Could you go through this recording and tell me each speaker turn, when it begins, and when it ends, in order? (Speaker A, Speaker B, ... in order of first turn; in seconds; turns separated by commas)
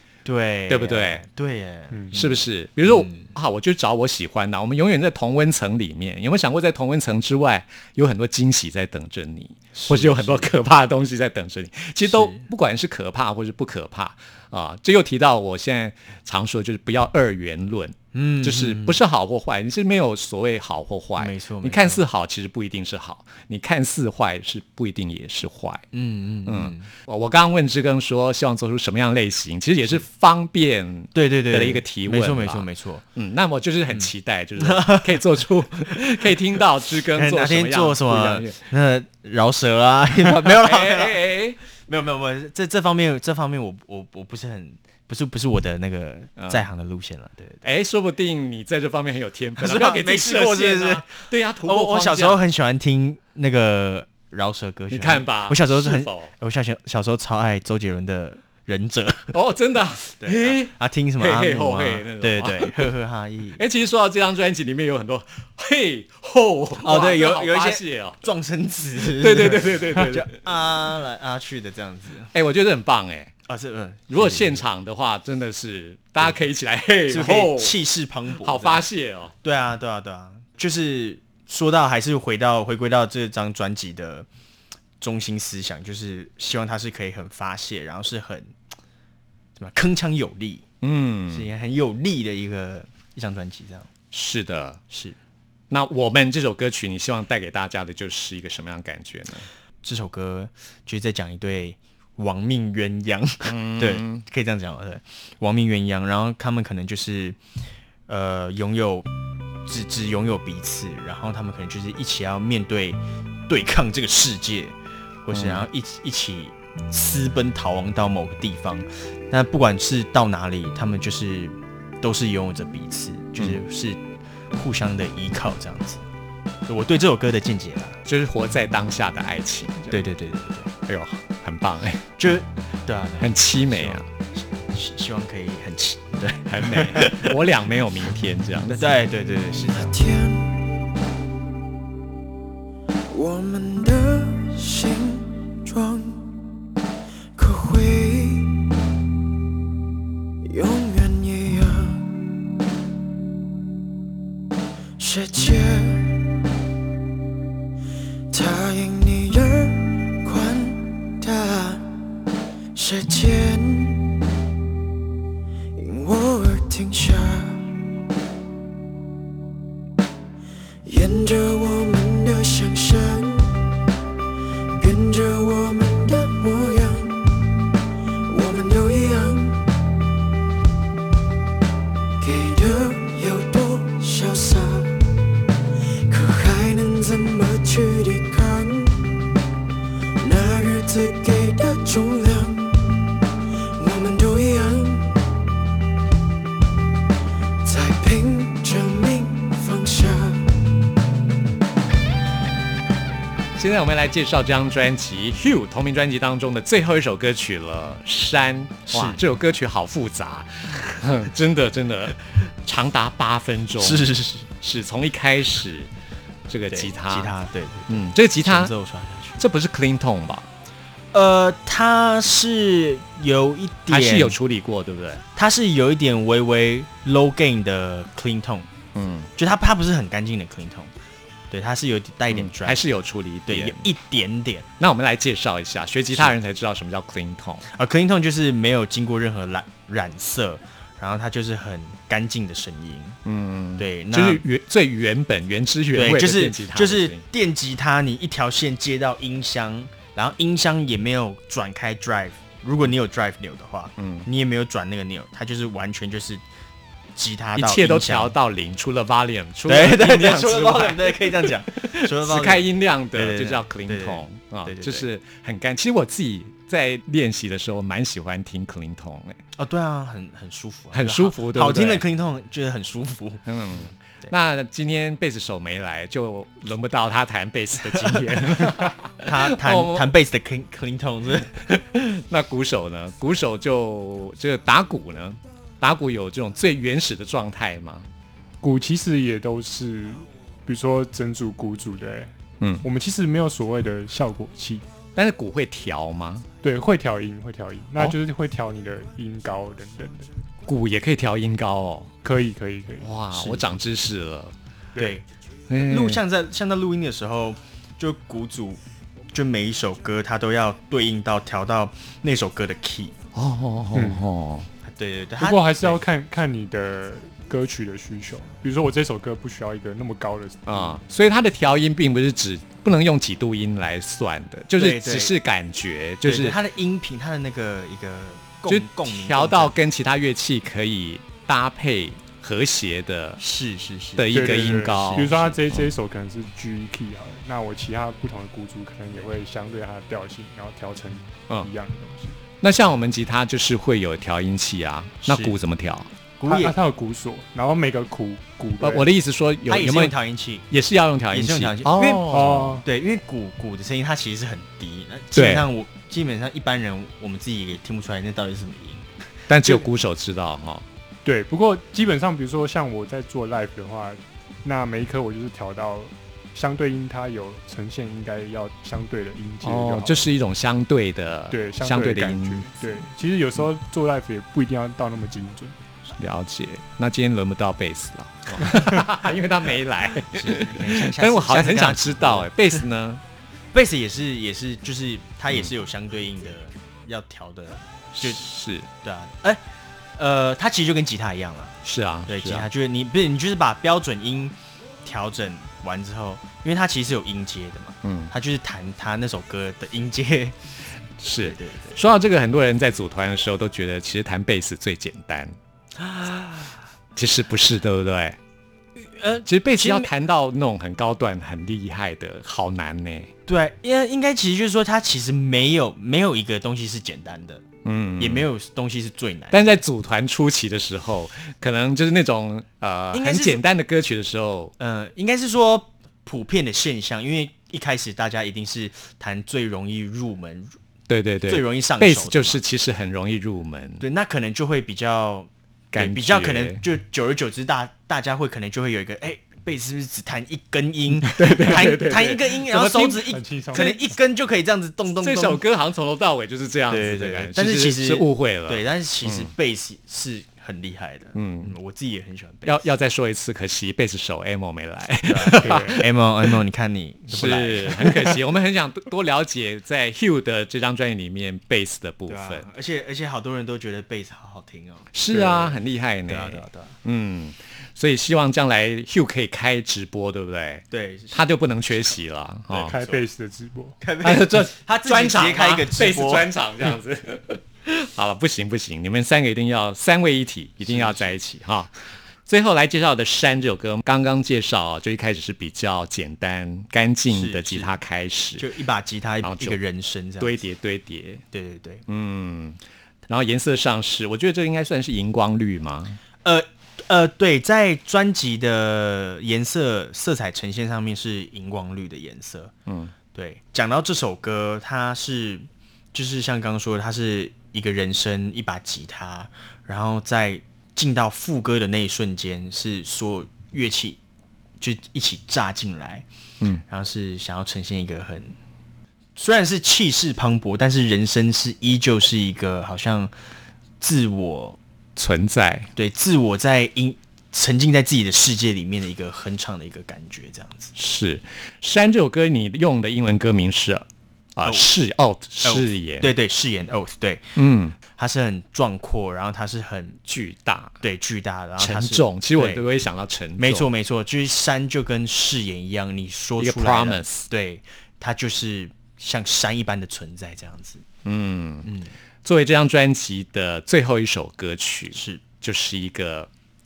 Speaker A: 0.2-3.3, Speaker B: 0.7-1.2, Speaker B: 2.1-25.8, Speaker A: 9.8-10.5, Speaker A: 12.0-12.5, Speaker A: 18.1-19.0, Speaker A: 21.2-22.0, Speaker A: 25.9-26.9, Speaker B: 26.5-38.6, Speaker A: 31.1-33.0, Speaker A: 33.9-36.3, Speaker A: 37.1-41.2, Speaker B: 40.2-41.6, Speaker A: 41.9-47.6, Speaker B: 46.4-46.7, Speaker B: 47.6-52.4, Speaker A: 49.6-59.4, Speaker B: 54.9-56.3, Speaker B: 59.3-62.9, Speaker A: 60.2-63.6, Speaker B: 63.6-68.3, Speaker A: 66.8-72.3, Speaker B: 69.0-70.3, Speaker B: 72.3-73.3, Speaker A: 73.5-74.6, Speaker B: 74.1-77.8, Speaker A: 76.2-76.4, Speaker A: 77.1-78.8, Speaker B: 78.4-79.3, Speaker A: 79.4-84.3, Speaker A: 85.0-88.5, Speaker A: 89.6-90.7, Speaker B: 90.8-91.5, Speaker A: 91.3-93.9, Speaker B: 94.1-94.8, Speaker A: 94.9-95.2, Speaker B: 95.7-99.5, Speaker A: 99.8-107.4, Speaker B: 103.5-104.3, Speaker A: 108.1-109.1, Speaker A: 109.7-124.0, Speaker B: 115.3-115.7, Speaker A: 124.5-126.0, Speaker A: 126.7-128.0, Speaker B: 128.1-130.1, Speaker A: 129.9-130.7, Speaker B: 130.9-132.1, Speaker A: 132.2-134.0, Speaker B: 133.2-134.1, Speaker A: 134.7-137.4, Speaker B: 136.5-138.9, Speaker A: 138.7-140.0, Speaker C: 139.8-140.8, Speaker C: 143.1-146.3, Speaker C: 147.3-148.6, Speaker C: 150.4-152.1, Speaker C: 155.0-156.2, Speaker C: 158.3-161.8, Speaker C: 162.7-164.1, Speaker C: 165.8-167.7, Speaker C: 170.8-173.5, Speaker C: 174.8-177.2, Speaker C: 178.3-179.6, Speaker C: 182.2-184.9, Speaker C: 186.1-189.1, Speaker C: 190.2-192.8, Speaker C: 193.8-195.2, Speaker C: 197.6-200.4, Speaker B: 203.6-215.9, Speaker A: 208.9-209.2, Speaker A: 213.8-214.5, Speaker B: 216.5-217.3, Speaker A: 216.7-219.4, Speaker B: 217.9-218.7, Speaker B: 219.4-220.5, Speaker A: 221.1-224.4, Speaker B: 223.9-225.2, Speaker A: 225.4-228.7, Speaker B: 228.9-229.3, Speaker A: 229.4-230.9, Speaker A: 231.5-232.9, Speaker B: 232.3-233.9, Speaker A: 233.5-234.7, Speaker B: 234.8-237.7, Speaker A: 237.7-243.2, Speaker B: 243.3-247.3, Speaker A: 243.8-244.4, Speaker A: 245.9-256.4, Speaker B: 254.0-254.3, Speaker A: 257.2-258.4, Speaker B: 257.6-269.4, Speaker A: 259.7-265.1, Speaker A: 269.6-273.4, Speaker B: 270.9-272.1, Speaker B: 273.5-280.1, Speaker A: 277.8-278.5, Speaker A: 279.2-281.5, Speaker B: 281.6-288.1, Speaker D: 288.6-292.3, Speaker B: 292.6-292.9, Speaker D: 292.8-294.9, Speaker B: 295.1-296.5, Speaker D: 296.6-300.3, Speaker B: 300.7-302.1, Speaker D: 302.2-303.1, Speaker B: 303.0-304.6, Speaker A: 303.3-303.7, Speaker A: 305.0-305.2, Speaker B: 305.7-306.2, Speaker A: 305.8-308.8, Speaker A: 309.3-313.2, Speaker B: 313.4-314.7, Speaker D: 313.9-314.2, Speaker A: 314.8-316.0, Speaker D: 315.4-321.0, Speaker B: 320.7-326.6, Speaker A: 324.8-325.4, Speaker A: 326.2-329.8, Speaker B: 328.7-333.4, Speaker A: 333.4-335.5, Speaker B: 334.2-335.9, Speaker D: 334.3-342.4, Speaker B: 342.6-346.1, Speaker A: 345.2-345.6, Speaker A: 346.4-346.8, Speaker D: 346.4-349.1, Speaker B: 348.8-350.2, Speaker A: 349.7-350.7, Speaker B: 350.7-352.8, Speaker A: 351.3-359.1, Speaker D: 352.2-352.9, Speaker B: 355.3-355.7, Speaker B: 359.5-360.9, Speaker D: 361.2-370.3, Speaker B: 369.6-373.1, Speaker D: 371.5-375.8, Speaker B: 376.2-383.2, Speaker A: 380.3-382.8, Speaker A: 383.7-388.4, Speaker B: 388.1-388.9, Speaker A: 389.0-389.6, Speaker A: 390.2-400.6, Speaker B: 391.8-392.7, Speaker B: 398.0-398.3, Speaker B: 401.2-405.6, Speaker A: 401.3-402.0, Speaker A: 406.0-406.8, Speaker B: 407.2-408.4, Speaker A: 409.0-410.1, Speaker B: 409.5-413.3, Speaker A: 413.5-417.7, Speaker B: 417.9-418.5, Speaker A: 418.2-419.6, Speaker B: 419.5-424.7, Speaker A: 423.1-423.6, Speaker A: 424.8-430.8, Speaker B: 431.1-434.0, Speaker A: 431.5-432.6, Speaker A: 434.0-445.6, Speaker B: 435.9-436.8, Speaker B: 441.2-443.9, Speaker D: 443.2-444.2, Speaker B: 445.2-449.5, Speaker A: 446.9-452.8, Speaker B: 451.4-451.8, Speaker B: 452.6-456.0, Speaker A: 455.3-458.2, Speaker D: 455.6-456.0, Speaker B: 457.3-462.7, Speaker A: 462.3-467.0, Speaker B: 465.1-473.0, Speaker A: 470.9-471.4, Speaker D: 472.8-474.0, Speaker A: 472.8-473.3, Speaker A: 474.0-476.5, Speaker B: 474.2-481.9, Speaker A: 480.8-481.4, Speaker B: 482.5-488.7, Speaker A: 487.3-488.0, Speaker A: 488.6-490.6, Speaker B: 489.4-489.8, Speaker B: 490.4-491.4, Speaker A: 491.5-492.0, Speaker B: 492.1-496.2, Speaker A: 496.4-502.7, Speaker B: 502.9-503.1, Speaker A: 503.3-514.2, Speaker A: 514.8-516.2, Speaker A: 516.9-518.5, Speaker A: 519.4-523.3, Speaker A: 524.0-524.8, Speaker B: 525.2-525.9, Speaker A: 526.0-530.9, Speaker B: 531.0-536.3, Speaker A: 535.6-540.2, Speaker B: 537.6-538.0, Speaker B: 540.2-541.0, Speaker A: 541.0-542.9, Speaker B: 541.8-543.9, Speaker A: 543.6-551.0, Speaker B: 546.6-547.5, Speaker B: 551.2-551.9, Speaker A: 551.9-552.1, Speaker B: 552.4-556.5, Speaker A: 555.1-555.4